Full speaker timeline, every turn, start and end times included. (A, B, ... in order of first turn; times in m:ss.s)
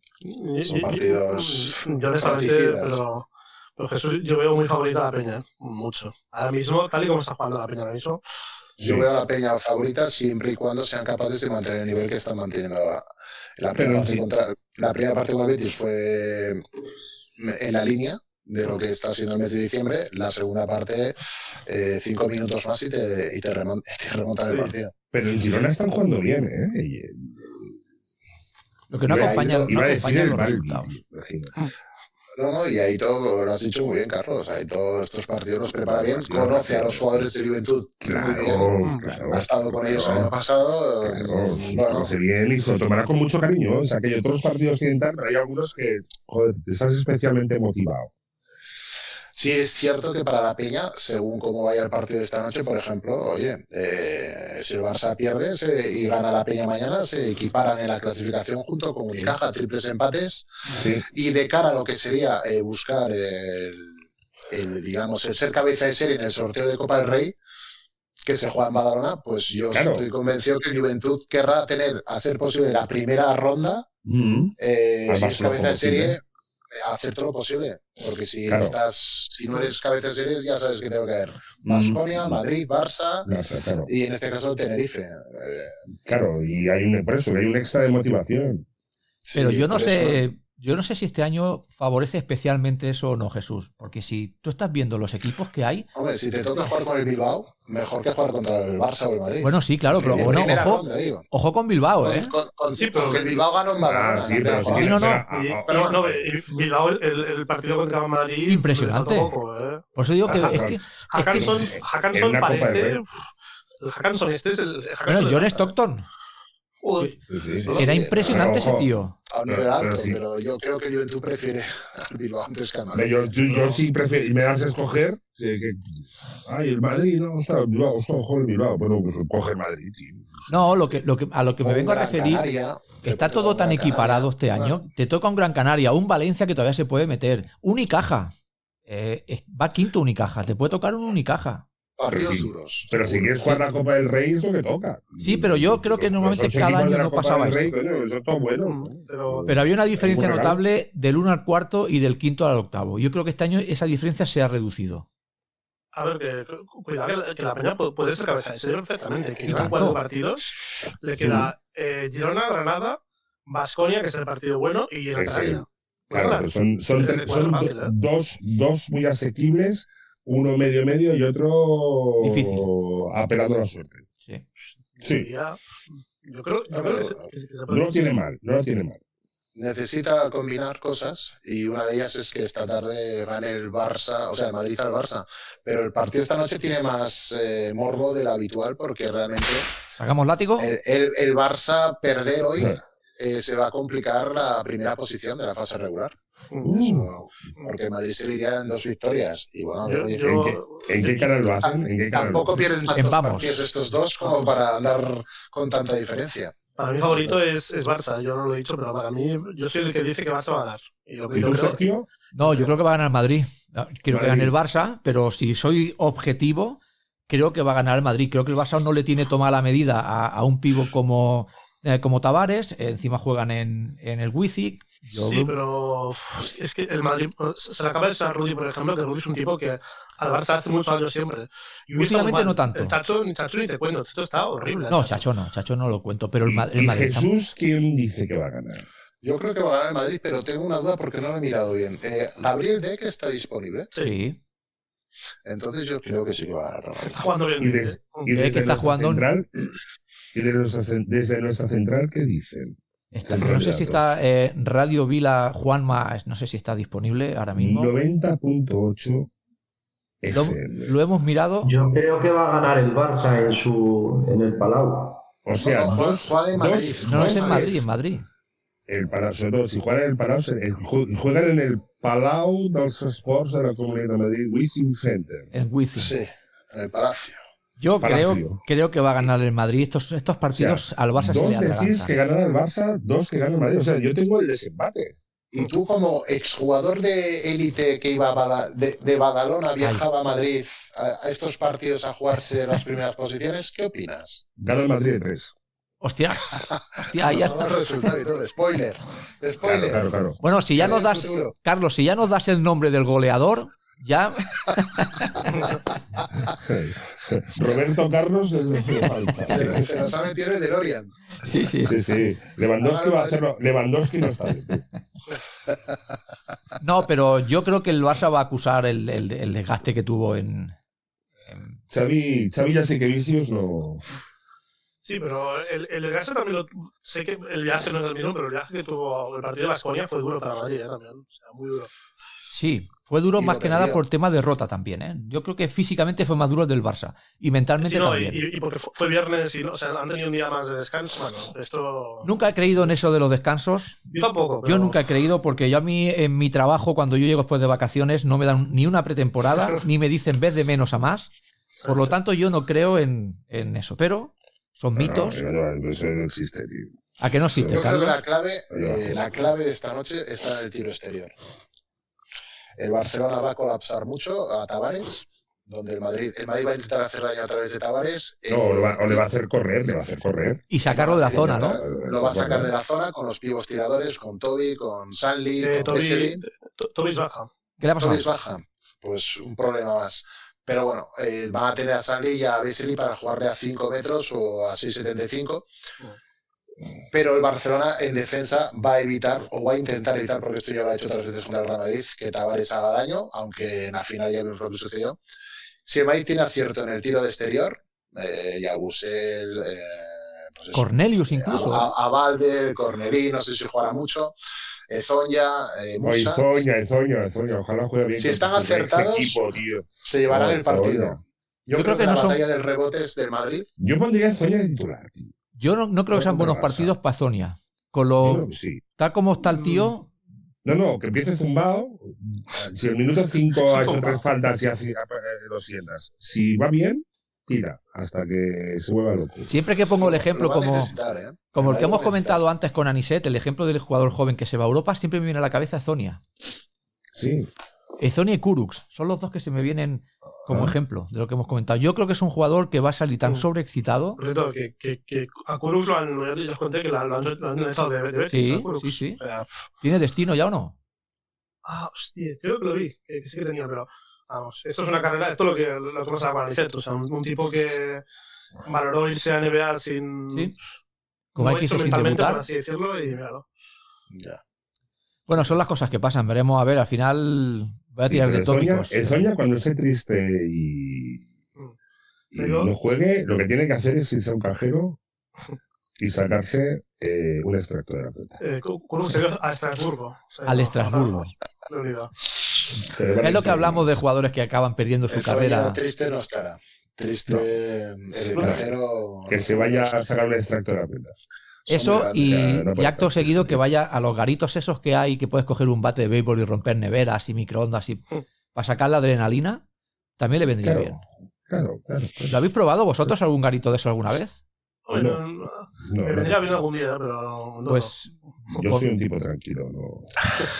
0:00.2-0:08.2 A
0:00.6-0:02.9 B
0:08.8-0:09.1 C
0:08.8-0:13.1 B
0:13.6-0:16.6 B
0:13.7-0:14.2 C
0:17.4-0:24.9 B
0:24.5-0:24.7 A
0:25.1-0:27.7 C
0:28.9-0:31.0 D
0:29.1-0:31.5 C
0:29.1-0:29.8 B
0:32.4-0:38.8 B
0:35.8-0:37.3 C
0:38.0-0:40.3 C
0:39.3-0:42.1 B
0:41.0-0:48.1 C
0:49.3-1:00.5 B
1:00.7-1:01.0 C
1:01.1-1:04.0 B
1:04.5-1:07.4 B
1:08.2-1:13.9 B
1:09.7-1:10.0 C
1:14.0-1:16.2 C
1:14.6-1:16.2 B
1:16.7-1:23.3 B
1:18.5-1:18.8 C
1:21.6-1:22.4 C
1:23.2-1:23.9 C
1:23.8-1:25.8 B
1:26.0-1:28.6 C
1:29.2-1:30.2 B
1:29.3-1:35.9 D
1:35.9-1:41.3 B
1:39.4-1:42.3 D
1:42.0-1:45.0 B
1:42.7-1:43.4 A
1:43.8-1:46.3 C
1:44.7-1:45.2 D
1:45.3-1:53.2 A
1:45.7-1:45.9 B
1:48.5-1:49.3 D
1:50.0-1:51.7 D
1:50.2-1:50.8 C
1:51.3-1:53.0 C
1:53.8-1:55.7 A
1:55.1-1:56.0 D
1:56.8-1:57.2 A
1:57.3-1:58.9 C
1:57.5-1:58.6 B
1:57.8-1:59.2 D
1:59.3-2:03.3 B
1:59.4-2:00.2 C
2:02.9-2:10.5 C
2:03.5-2:03.8 A
2:10.5-2:12.4 D
2:11.6-2:14.8 B
2:13.0-2:18.3 D
2:18.8-2:21.6 D
2:22.0-2:23.4 B
2:22.1-2:30.6 C
2:25.2-2:27.7 D
2:28.6-2:29.5 A
2:29.5-2:35.0 D
2:35.9-2:47.9 A
2:39.5-2:40.0 D
2:41.2-2:41.5 C
2:45.1-2:54.0 C
2:52.2-2:52.7 D
2:55.0-2:55.6 A
2:55.0-2:55.3 C
2:56.2-2:58.1 A
2:56.7-2:57.3 B
2:57.7-2:59.0 C
2:59.5-3:09.7 B
3:10.0-3:10.7 D
3:10.6-3:20.4 B
3:16.6-3:17.1 C
3:19.8-3:21.3 A
3:20.2-3:22.7 C
3:21.6-3:26.6 B
3:22.9-3:23.6 D
3:24.2-3:24.5 A
3:26.8-3:31.8 A
3:31.3-3:32.1 C
3:32.3-3:45.5 D
3:34.1-3:34.5 C
3:45.1-3:55.2 A
3:51.9-3:53.0 D
3:54.9-3:57.3 D
3:56.4-3:58.8 C
3:59.2-4:03.9 B
4:04.0-4:04.4 D
4:05.4-4:07.2 B
4:07.0-4:08.3 A
4:07.6-4:09.5 C
4:08.3-4:09.3 D
4:10.3-4:14.2 C
4:13.1-4:17.9 D
4:17.6-4:19.3 C
4:20.2-4:20.9 C
4:20.3-4:21.7 D
4:21.6-4:25.2 E
4:25.4-4:27.8 C
4:25.5-4:27.8 B
4:27.1-4:28.2 D
4:28.9-4:35.5 C
4:35.5-4:36.1 D
4:36.0-4:37.4 B
4:37.8-4:42.1 D
4:38.0-4:38.6 C
4:40.5-4:45.2 C
4:45.5-4:54.4 B
4:54.6-4:55.5 C
4:56.0-4:57.8 D
4:57.2-5:00.0 B
4:59.6-5:00.4 C
5:00.4-5:05.5 D
5:00.8-5:01.5 B
5:06.5-5:09.9 C
5:08.9-5:10.0 D
5:09.5-5:11.1 B
5:11.4-5:12.0 D
5:11.8-5:14.8 C
5:12.8-5:13.4 B
5:16.8-5:20.7 D
5:21.5-5:21.8 D
5:21.9-5:24.0 C
5:25.0-5:31.9 A
5:32.5-5:38.4 D
5:33.4-5:34.0 B
5:37.8-5:42.3 A
5:42.2-5:44.1 D
5:44.1-5:45.0 A
5:44.6-5:51.3 D
5:51.8-5:52.1 A
5:51.8-5:55.4 D
5:54.9-5:56.9 C
5:57.2-5:58.2 D
5:57.5-5:57.8 C
5:57.6-6:01.3 B
5:58.7-5:59.2 C
6:02.8-6:09.3 B
6:08.5-6:12.7 C
6:10.7-6:11.8 D
6:10.8-6:16.4 B
6:15.6-6:17.5 A
6:17.8-6:18.2 D
6:18.0-6:25.6 B
6:27.1-6:35.2 B
6:35.8-6:44.3 B
6:40.7-6:41.9 D
6:44.9-6:46.6 B
6:46.0-6:51.2 C
6:48.1-6:49.4 B
6:50.0-6:53.7 B
6:51.7-6:52.4 D
6:53.8-6:55.3 C
6:55.6-6:58.4 D
6:56.1-6:56.9 C
6:58.2-6:58.8 C
6:59.0-7:00.1 D
6:59.6-6:59.9 A
7:00.6-7:09.5 C
7:03.6-7:04.2 A
7:09.5-7:10.9 D
7:10.0-7:12.4 B
7:11.5-7:16.2 D
7:17.1-7:17.5 C
7:18.0-7:24.2 D
7:20.4-7:20.8 C
7:24.2-7:29.7 A
7:28.3-7:29.2 D
7:29.8-7:30.8 D
7:31.6-7:38.0 A
7:38.6-7:40.5 A
7:41.3-7:42.4 D
7:41.4-7:43.4 A
7:44.1-7:44.4 B
7:45.3-7:49.2 D
7:48.1-7:51.2 C
7:52.3-7:55.0 C
7:52.3-7:52.7 A
7:56.0-7:58.4 C
7:58.4-8:02.1 A
8:00.4-8:01.3 D
8:02.8-8:03.9 C
8:03.2-8:05.8 D
8:05.1-8:10.0 B
8:08.3-8:08.6 A
8:08.4-8:08.7 C
8:09.3-8:11.2 C
8:11.7-8:12.5 B
8:11.7-8:19.6 D
8:12.2-8:13.6 C
8:20.2-8:21.0 D
8:20.6-8:22.4 C
8:22.3-8:24.4 D
8:24.8-8:27.9 A
8:24.9-8:25.2 C
8:25.8-8:26.6 C
8:27.7-8:28.9 D
8:28.5-8:30.3 C